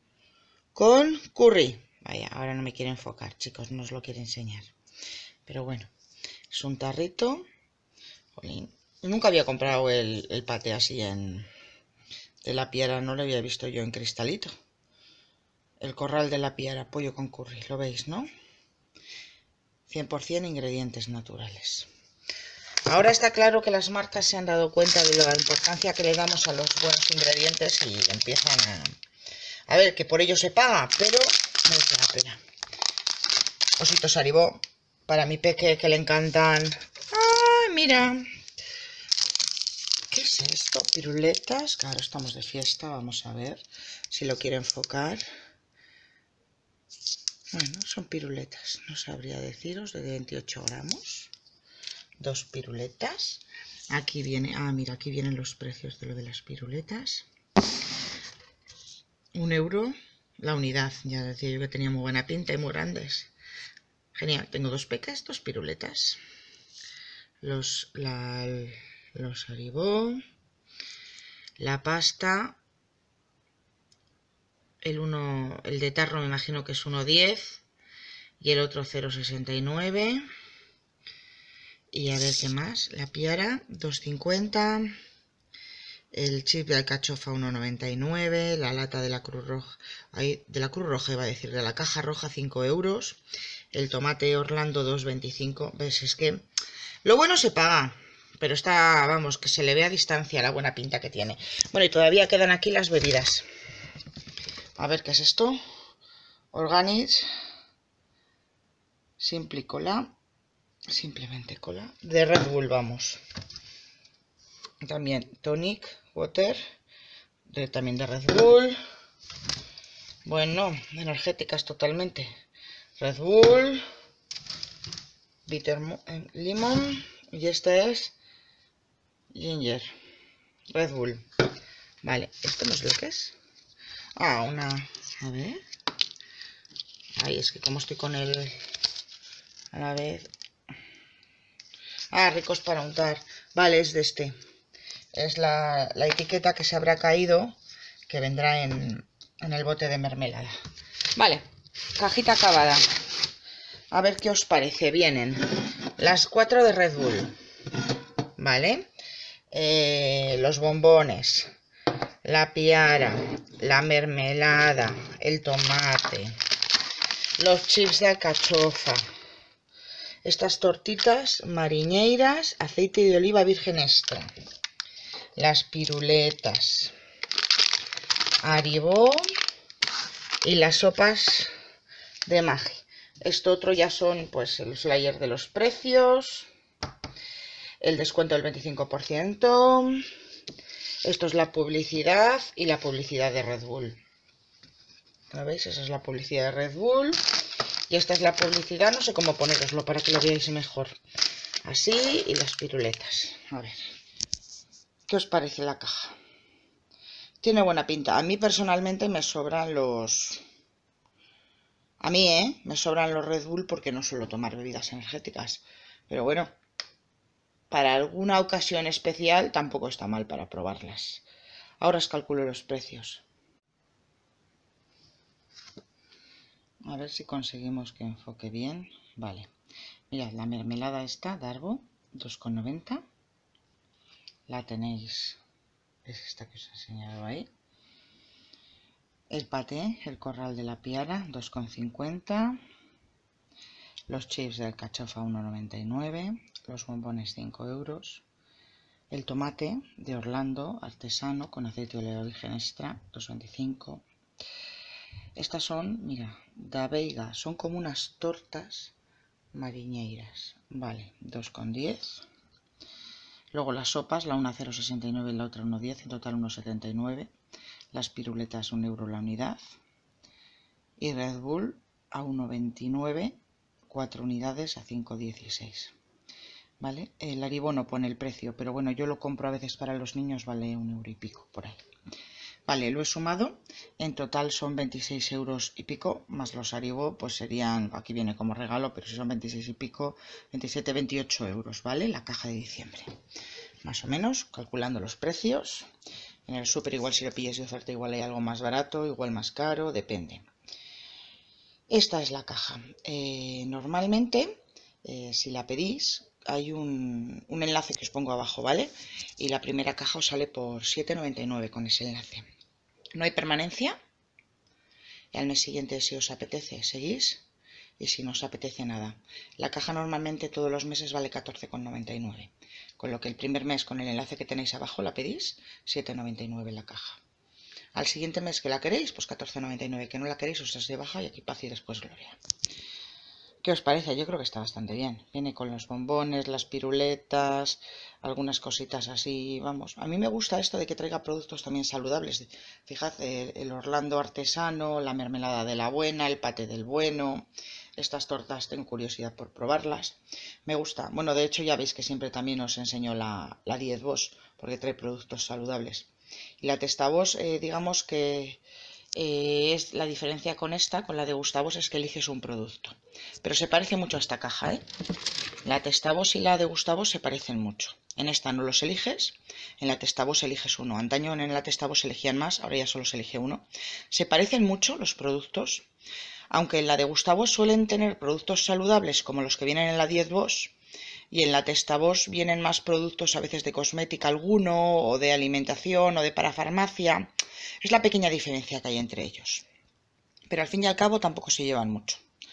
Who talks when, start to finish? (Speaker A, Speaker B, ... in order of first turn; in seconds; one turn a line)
Speaker A: 0.7-4.7
Speaker A: 5.5-5.9
Speaker A: 6.5-7.5
Speaker A: 8.3-11.5
Speaker A: 12.4-14.5
Speaker A: 15.8-18.3
Speaker A: 19.9-21.9
Speaker A: 22.9-28.9
Speaker A: 29.7-32.4
Speaker A: 33.8-38.3
Speaker A: 40.1-45.2
Speaker A: 47.5-51.3
Speaker A: 52.2-57.3
Speaker A: 59.3-63.3
Speaker A: 64.1-66.2
Speaker A: 67.4-70.2
Speaker A: 71.6-72.6
Speaker A: 74.8-77.6
Speaker A: 78.4-80.2
Speaker A: 81.9-85.0
Speaker A: 86.1-93.2
Speaker A: 93.7-96.4
Speaker A: 97.0-103.5
Speaker A: 104.8-105.6
Speaker A: 106.5-107.3
Speaker A: 109.2-110.1
Speaker A: 110.9-113.2
Speaker A: 114.8-116.6
Speaker A: 117.5-118.8
Speaker A: 120.2-122.3
Speaker A: 123.0-123.8
Speaker A: 125.5-128.2
Speaker A: 129.3-129.9
Speaker A: 130.7-131.2
Speaker A: 132.0-133.3
Speaker A: 134.2-135.6
Speaker A: 137.2-138.6
Speaker A: 139.7-140.3
Speaker A: 142.1-144.3
Speaker A: 145.1-147.6
Speaker A: 148.1-150.6
Speaker A: 151.1-151.4
Speaker A: 151.9-152.9
Speaker A: 153.9-155.4
Speaker A: 155.9-157.3
Speaker A: 158.4-158.9
Speaker A: 159.5-161.5
Speaker A: 162.2-166.3
Speaker A: 167.4-169.0
Speaker A: 170.2-174.3
Speaker A: 175.3-176.9
Speaker A: 178.4-179.2
Speaker A: 180.4-181.5
Speaker A: 182.2-186.5
Speaker A: 187.8-190.0
Speaker A: 191.0-194.0
Speaker A: 195.3-197.2
Speaker A: 197.9-200.9
Speaker A: 201.6-203.8
Speaker A: 205.1-206.2
Speaker A: 207.4-210.4
Speaker A: 212.0-216.5
Speaker A: 217.7-221.2
Speaker A: 221.8-223.2
Speaker A: 226.9-229.5
Speaker A: 230.1-233.0
Speaker A: 234.5-235.4
Speaker A: 236.0-237.5
Speaker A: 239.3-242.6
Speaker A: 244.1-248.2
Speaker A: 249.1-254.1
Speaker A: 255.3-258.9
Speaker A: 259.5-262.2
Speaker A: 263.5-267.3
Speaker A: 267.9-269.6
Speaker A: 271.0-275.9
Speaker A: 276.8-281.8
Speaker A: 282.6-293.1
Speaker A: 293.8-295.9
Speaker A: 296.4-300.4
Speaker A: 301.9-312.5
Speaker A: 313.1-314.0
Speaker A: 315.3-317.4
Speaker A: 318.0-327.2
Speaker A: 327.9-332.4
Speaker A: 333.6-356.1
Speaker A: 356.6-358.6
Speaker A: 359.1-364.8
Speaker A: 365.6-375.8
Speaker A: 376.5-380.7
Speaker A: 381.3-389.6
Speaker A: 390.5-392.2